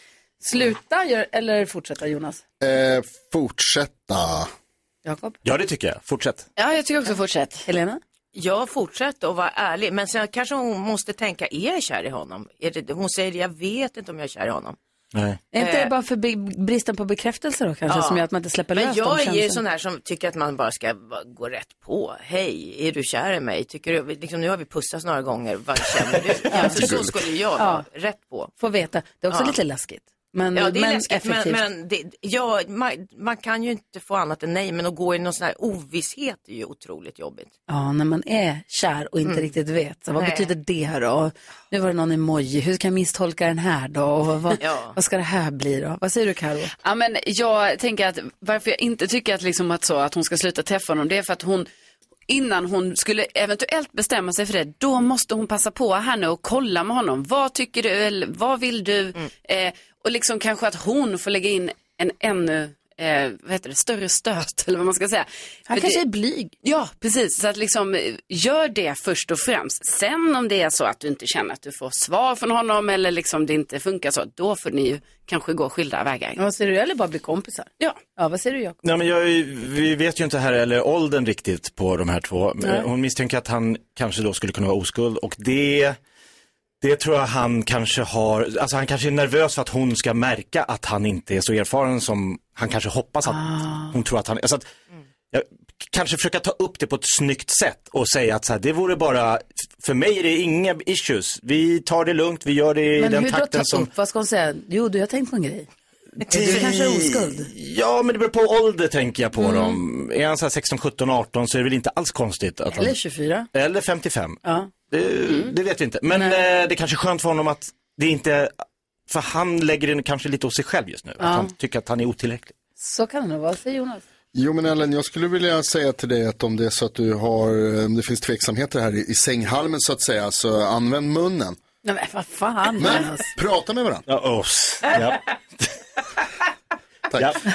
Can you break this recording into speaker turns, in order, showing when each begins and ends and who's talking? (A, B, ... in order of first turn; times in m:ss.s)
0:00.4-0:02.4 A
0:02.6-0:04.5 B
0:05.0-0:05.4 A
0:05.4-0:06.4 C
0:06.6-0:07.6 D
0:07.6-0:08.0 A
0:08.3-0:14.8 E
0:15.1-0:15.4 C
0:15.5-0:19.6 A
0:15.6-0:15.9 E
0:17.8-0:28.5 E
0:26.5-0:26.8 A
0:26.8-0:27.1 B
0:27.6-0:27.8 A
0:28.6-0:31.6 A
0:29.3-0:29.6 E
0:30.5-0:37.5 E
0:37.7-0:46.7 A
0:39.2-0:39.5 E
0:40.2-0:40.5 E
0:44.6-0:45.0 E
0:46.8-0:51.7 D
0:52.3-1:06.0 D
1:05.7-1:06.5 A
1:06.6-1:16.4 D
1:16.4-1:18.8 A
1:18.8-1:26.0 C
1:26.8-1:34.7 C
1:33.3-1:33.9 A
1:35.3-1:43.9 C
1:43.0-1:45.7 A
1:46.2-1:52.9 C
1:46.3-1:47.5 A
1:46.4-1:46.7 E
1:49.4-1:49.8 A
1:52.8-1:53.5 A
1:53.5-1:54.4 C
1:54.4-1:54.7 A
1:54.9-1:58.5 C
1:56.1-1:56.4 A
1:59.1-2:02.5 C
2:01.2-2:01.5 A
2:02.8-2:04.0 A
2:04.3-2:11.6 B
2:11.8-2:13.3 A
2:12.8-2:14.0 B
2:14.1-2:15.7 C
2:17.1-2:17.4 B
2:17.2-2:17.4 C